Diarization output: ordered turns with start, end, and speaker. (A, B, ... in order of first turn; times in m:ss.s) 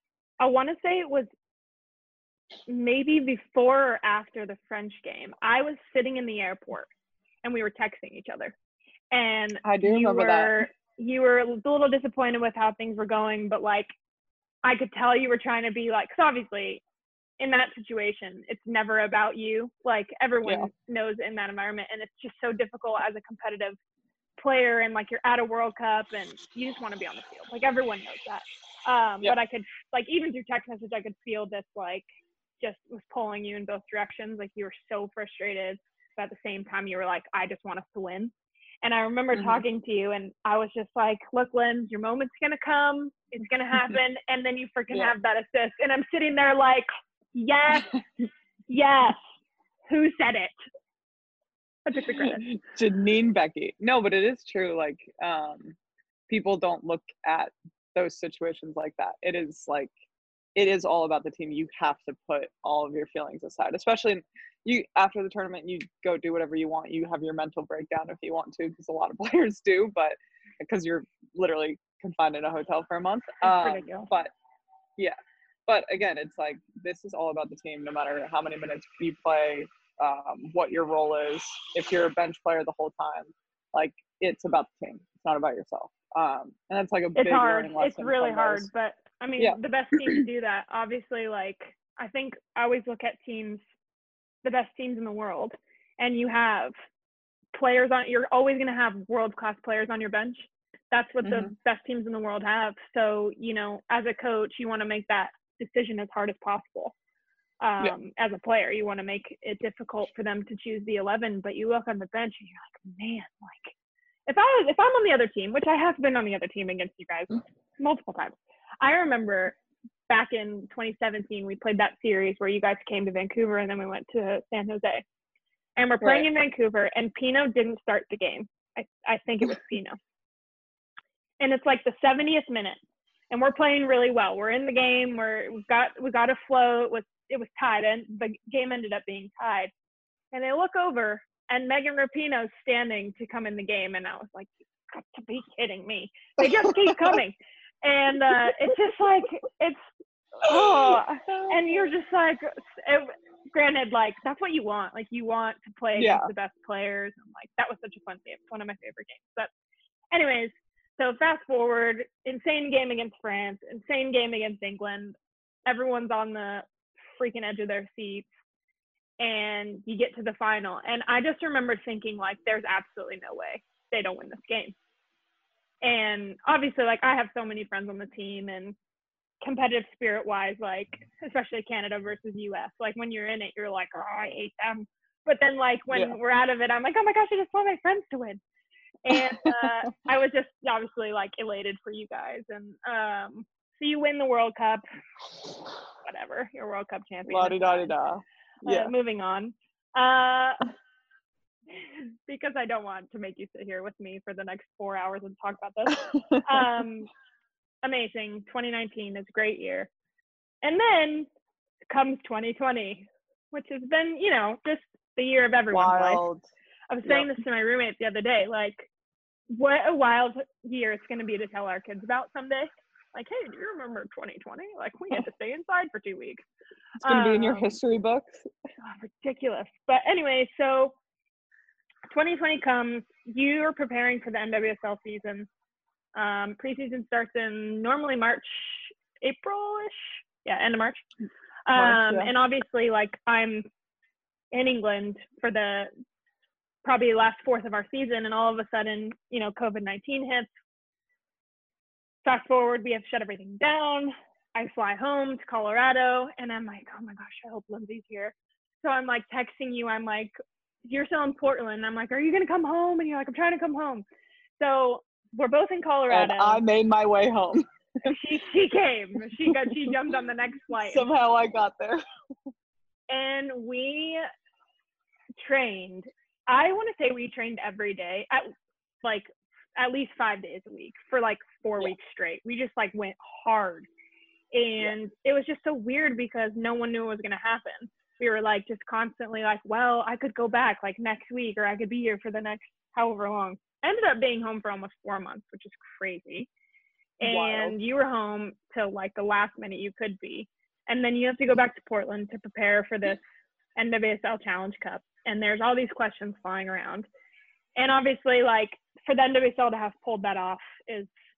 0:00.4-0:01.3 A
0:02.7-0:06.9 A
0:07.4-0:08.6 A
0:09.1-0:13.9 A
0:09.6-0:10.7 B
0:14.6-0:16.8 A
0:17.4-0:23.8 A
0:24.4-0:32.1 A
0:32.6-0:38.3 A
0:38.8-0:47.9 A
0:39.3-0:39.6 B
0:47.8-0:48.2 B
0:48.7-0:49.2 A
0:49.9-0:50.5 A
0:51.8-0:52.4 A
0:52.1-0:55.8 B
0:56.3-0:59.9 B
1:00.6-1:14.3 B
1:13.4-1:14.1 A
1:15.7-1:28.7 B
1:27.2-1:33.6 A
1:29.4-1:30.2 B
1:34.4-1:36.7 A
1:37.5-1:47.0 A
1:41.2-1:41.5 B
1:47.6-1:53.7 A
1:54.3-1:59.6 A
2:00.1-2:05.0 A
2:05.8-2:10.0 A
2:06.0-2:06.3 B
2:11.4-2:12.8 A
2:13.3-2:19.7 A
2:20.3-2:29.8 A
2:26.4-2:27.2 B
2:30.4-2:39.5 A
2:30.5-2:31.9 B
2:36.0-2:36.3 B
2:40.1-2:48.3 A
2:49.2-2:54.8 A
2:55.8-2:58.8 A
2:59.4-3:08.4 A
3:09.0-3:14.8 A
3:09.1-3:09.7 B
3:16.0-3:18.0 A
3:17.3-3:18.9 B
3:18.6-3:20.7 A
3:21.8-3:27.1 A
3:26.0-3:26.4 B
3:27.8-3:29.9 A
3:30.6-3:31.3 A
3:31.9-3:36.2 A
3:35.7-3:36.4 B
3:36.9-3:38.9 A
3:39.5-3:46.4 A
3:47.0-3:47.8 A
3:47.0-3:48.5 B
3:48.8-3:50.9 A
3:52.1-3:55.5 A
3:56.2-4:01.0 A
4:01.7-4:03.6 A
4:01.8-4:02.3 B
4:04.5-4:05.9 A
4:06.8-4:10.5 A
4:12.2-4:20.3 A
4:20.9-4:24.0 A
4:24.6-4:26.6 A
4:26.1-4:28.2 B
4:28.0-4:31.1 A
4:29.4-4:30.0 B
4:30.9-4:32.0 B
4:33.1-4:34.3 A
4:35.4-4:38.5 A
4:39.0-4:43.9 A
4:44.5-4:56.5 A
4:57.2-5:03.2 A
4:57.2-4:57.8 B
5:03.8-5:07.1 A
5:07.8-5:11.1 A